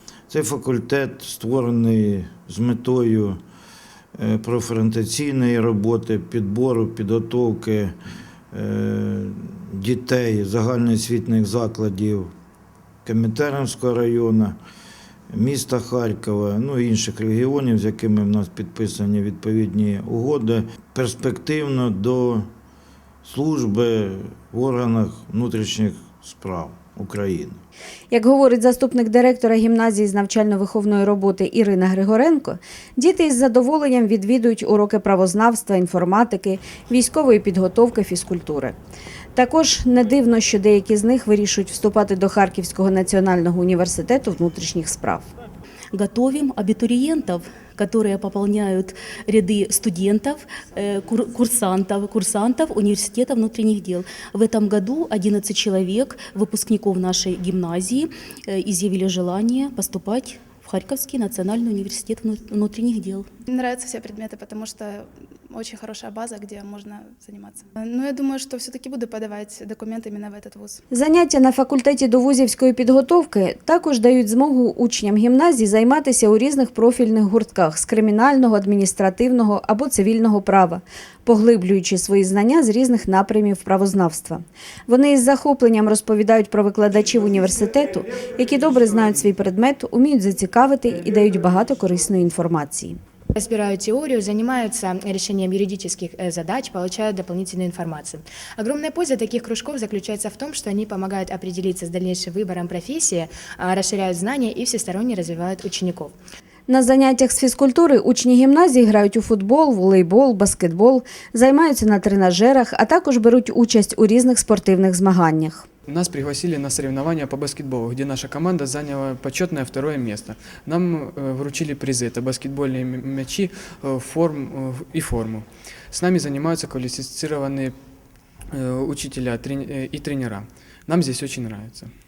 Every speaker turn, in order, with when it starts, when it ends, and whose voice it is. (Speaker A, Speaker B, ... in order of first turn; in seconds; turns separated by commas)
Speaker A: 0.3-3.4, Speaker A: 4.2-7.9, Speaker A: 8.5-12.3, Speaker A: 13.0-14.6, Speaker A: 15.3-22.5, Speaker A: 23.2-27.6, Speaker B: 28.1-38.7, Speaker B: 39.3-45.3, Speaker C: 45.9-63.2, Speaker D: 63.5-70.8, Speaker B: 70.9-93.0, Speaker E: 93.3-106.1, Speaker B: 106.7-115.7, Speaker F: 115.9-127.7, Speaker F: 128.5-131.9